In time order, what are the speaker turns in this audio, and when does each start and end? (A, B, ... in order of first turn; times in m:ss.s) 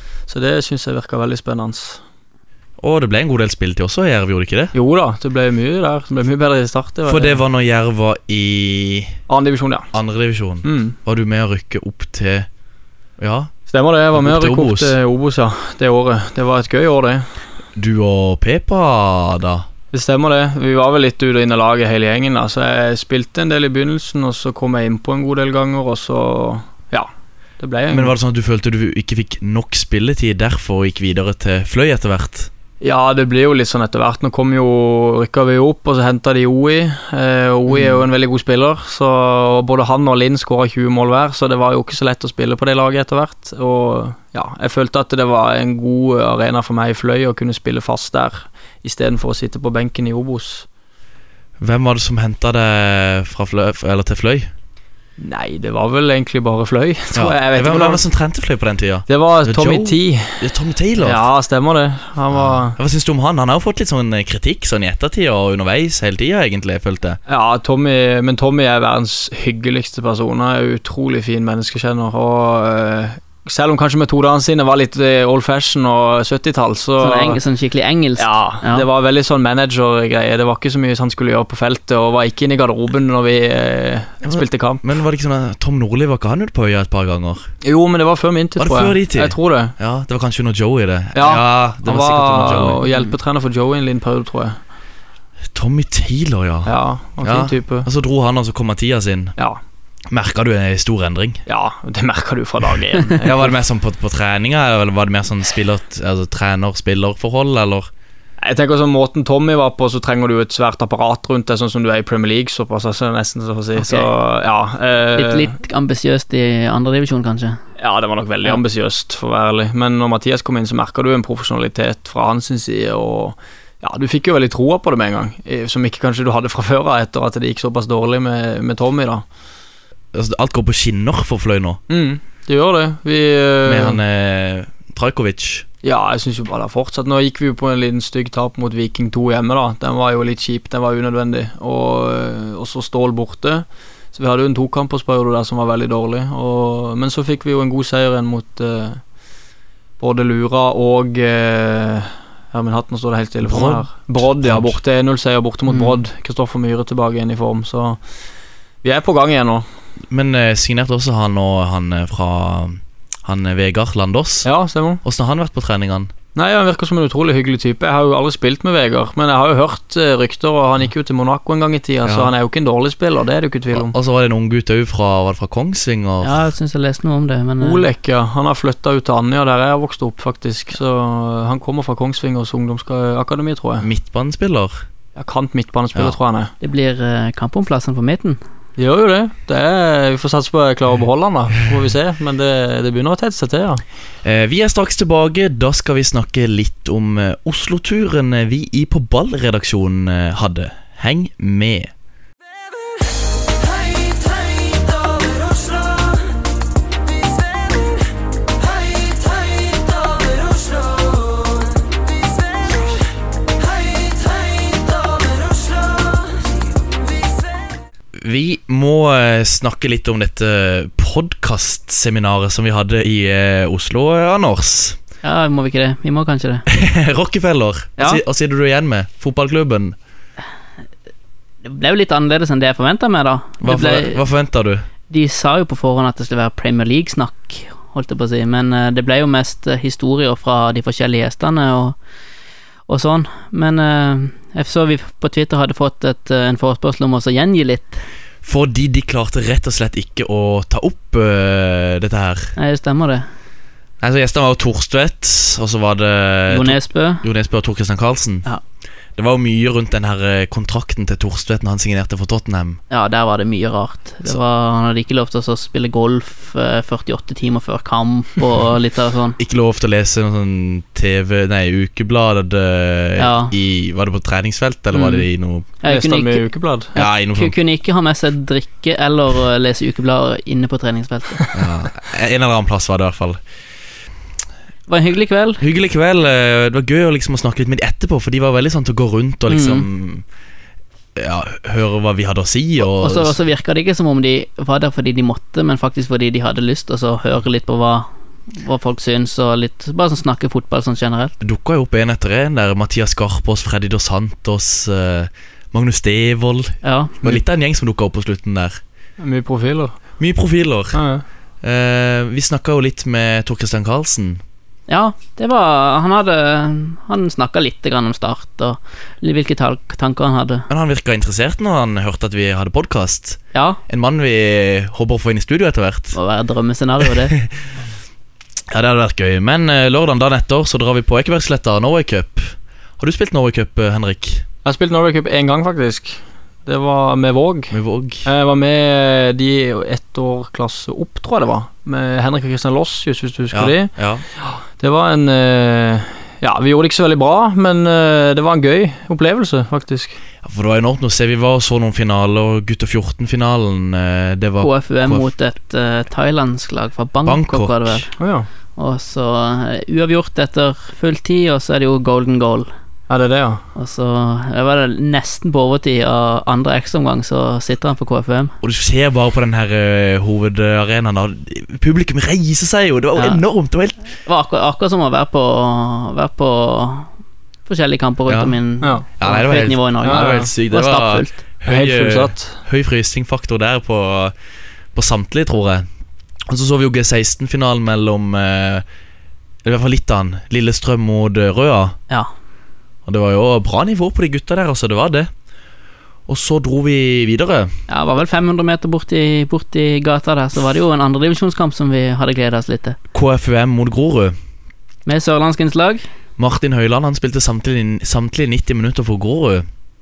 0:00.3-0:02.0 A
0:02.8-0:04.7 B
0:04.7-0:07.4 A
0:07.1-0:09.2 B
0:09.3-0:09.9 A
0:09.9-0:12.5 B
0:10.6-0:11.0 A
0:13.2-0:13.5 B
0:13.7-0:17.2 A
0:14.2-0:14.9 B
0:17.8-0:19.6 B
0:19.9-0:28.1 A
0:27.9-0:32.5 B
0:32.8-0:50.7 A
0:51.6-0:54.5 B
0:55.2-0:58.0 A
0:57.1-1:01.2 B
0:59.1-1:00.4 A
1:01.0-1:02.8 A
1:02.3-1:07.2 B
1:07.3-1:17.4 A
1:17.0-1:18.9 C
1:18.2-1:24.8 A
1:24.2-1:27.5 B
1:27.6-1:29.7 A
1:28.6-1:32.8 B
1:31.2-1:34.6 A
1:35.5-1:39.4 B
1:36.7-1:37.9 A
1:40.1-1:41.4 B
1:41.5-1:43.5 A
1:43.2-1:47.9 B
1:48.4-1:55.5 A
1:53.8-1:54.1 C
1:55.1-1:57.6 C
1:57.8-2:09.2 A
2:10.1-2:11.8 B
2:11.9-2:14.0 A
2:13.6-2:15.7 B
2:15.8-2:29.0 A
2:30.0-2:38.0 A
2:33.4-2:34.8 B
2:35.7-2:36.0 C
2:38.8-2:39.6 A
2:40.1-2:44.5 B
2:44.4-2:45.0 A
2:45.0-2:46.1 B
2:46.4-2:54.0 A
2:52.0-2:52.3 B
2:53.7-2:56.4 B
2:56.2-2:57.9 C
2:57.6-3:03.9 A
3:03.8-3:04.8 B
3:05.2-3:06.5 A
3:06.6-3:08.4 C
3:08.8-3:13.8 A
3:14.2-3:21.9 B
3:24.6-3:26.0 D
3:28.8-3:31.1 D
3:33.8-3:35.8 D
3:38.2-3:45.0 B
3:45.2-3:46.7 C
3:46.7-3:50.0 B
3:51.6-3:54.2 C
3:53.6-3:54.9 B
3:55.1-4:02.0 C
4:02.9-4:08.0 C
4:08.4-4:12.5 B
4:12.6-4:13.3 C
4:14.0-4:18.5 B
4:16.5-4:17.2 C
4:19.2-4:22.8 B
4:22.9-4:29.4 C
4:29.4-4:35.7 B
4:33.2-4:33.5 C
4:35.0-4:35.2 C
4:35.8-4:41.5 C
4:35.8-4:36.9 A
4:37.0-4:37.6 B
4:41.5-4:43.4 B
4:44.9-4:45.6 C
4:45.6-4:50.2 B
4:49.5-4:49.9 C
4:51.2-4:53.4 B
4:52.8-5:01.3 C
5:01.4-5:08.8 B
5:06.8-5:07.1 C
5:09.2-5:10.0 A
5:10.2-5:11.0 B
5:10.9-5:11.2 A
5:11.6-5:14.4 B
5:14.9-5:20.7 C
5:20.7-5:26.2 B
5:23.5-5:23.8 C
5:26.1-5:27.4 C
5:28.7-5:34.4 B
5:34.6-5:37.7 A
5:37.7-5:38.3 B
5:38.2-5:43.9 A
5:43.5-5:44.2 B
5:44.4-5:50.2 A
5:50.4-5:55.3 B
5:54.6-5:58.1 C
5:57.3-5:58.0 B
5:58.2-5:58.5 A
5:58.8-6:02.7 C
6:03.1-6:03.6 A
6:03.8-6:08.6 C
6:08.6-6:14.0 B
6:13.2-6:13.4 C
6:14.2-6:17.1 C
6:17.7-6:21.4 C
6:18.3-6:18.6 B
6:19.2-6:24.3 B
6:20.0-6:20.5 A
6:21.7-6:22.6 A
6:24.9-6:25.9 B
6:26.5-6:28.8 B
6:29.6-6:32.0 B
6:33.1-6:35.3 B
6:36.3-6:37.7 B
6:37.9-6:43.0 C
6:43.1-6:44.4 B
6:45.1-6:46.0 C
6:46.4-6:49.6 B